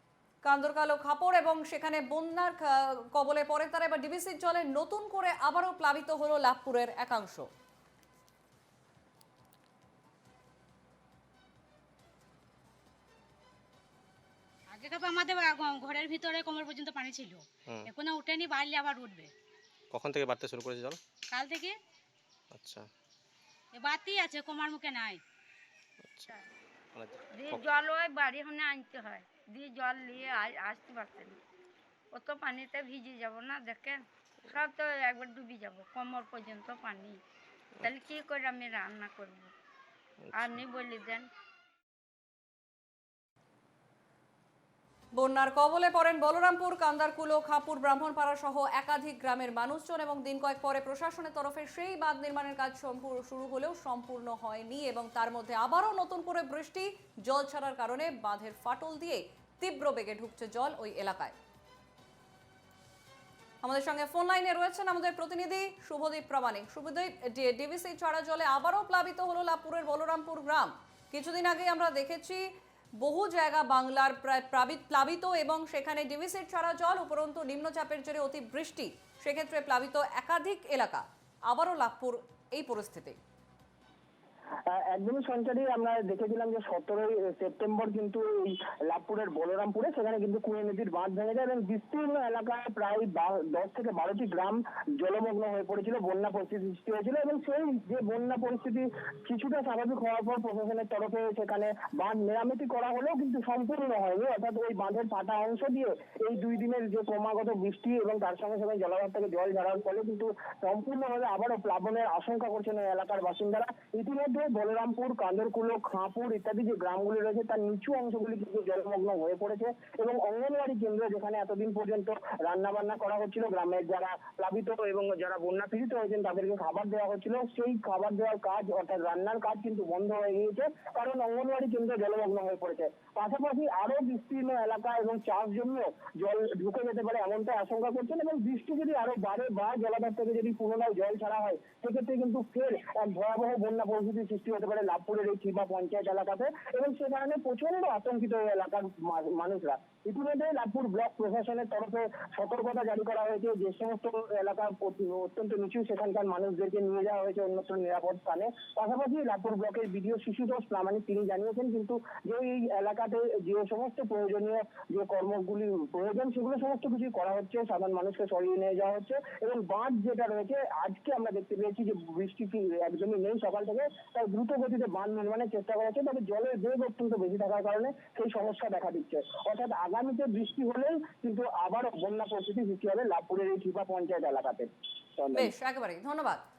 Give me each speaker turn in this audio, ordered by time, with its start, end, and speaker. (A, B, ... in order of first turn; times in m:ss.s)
0:00.4-0:07.5 A
0:14.7-0:19.3 B
0:19.9-0:21.0 C
0:21.3-0:21.8 B
0:22.5-0:22.9 C
0:23.7-0:25.2 B
0:26.0-0:26.3 C
0:26.9-0:27.6 C
0:27.3-0:31.4 D
0:32.1-0:37.2 D
0:37.8-0:39.5 D
0:40.3-0:41.3 D
0:45.1-1:01.4 A
1:03.6-1:23.2 A
1:24.7-3:05.5 E
3:05.3-3:06.4 A